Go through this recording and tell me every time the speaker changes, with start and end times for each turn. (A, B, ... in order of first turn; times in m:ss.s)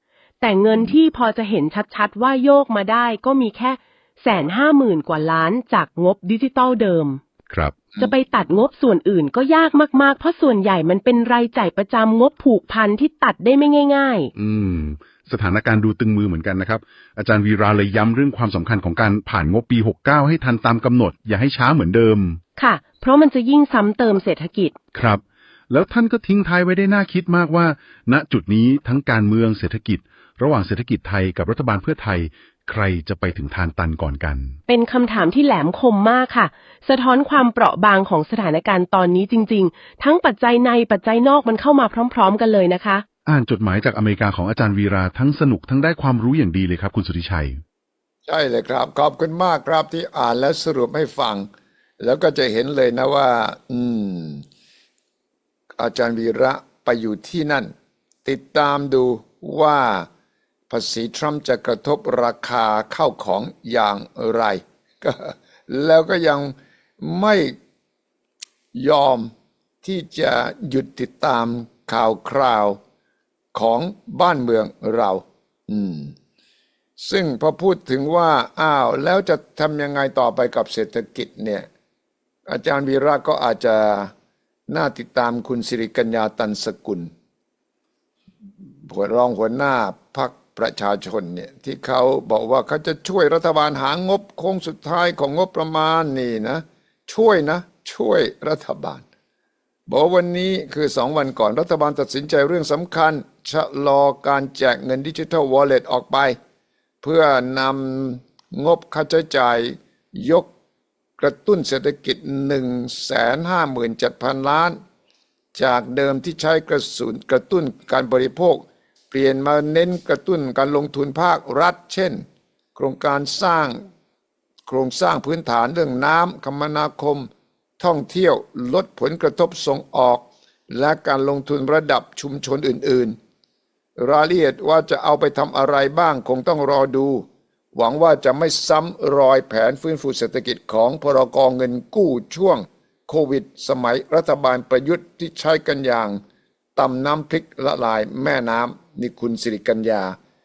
0:00.4-0:07.2 A
0:07.5-0:07.8 B
0:08.0-0:14.3 A
0:14.3-0:22.4 B
0:22.6-0:24.7 A
0:24.9-0:34.6 B
0:34.7-0:43.0 A
0:43.2-0:47.6 B
0:48.2-0:51.5 C
0:52.0-0:54.4 C
0:55.8-0:57.7 C
0:58.2-1:00.1 C
1:00.7-1:07.6 C
1:08.7-1:09.3 C
1:09.8-1:12.8 C
1:13.5-1:16.1 C
1:17.0-1:21.7 C
1:22.5-1:24.1 C
1:24.7-1:27.1 C
1:28.8-1:39.0 C
1:39.9-1:46.4 C
1:47.0-1:50.5 C
1:51.2-1:54.8 C
1:55.5-2:03.8 C
2:04.7-2:07.3 C
2:07.8-2:13.2 C
2:14.0-2:26.2 C
2:26.8-2:30.2 C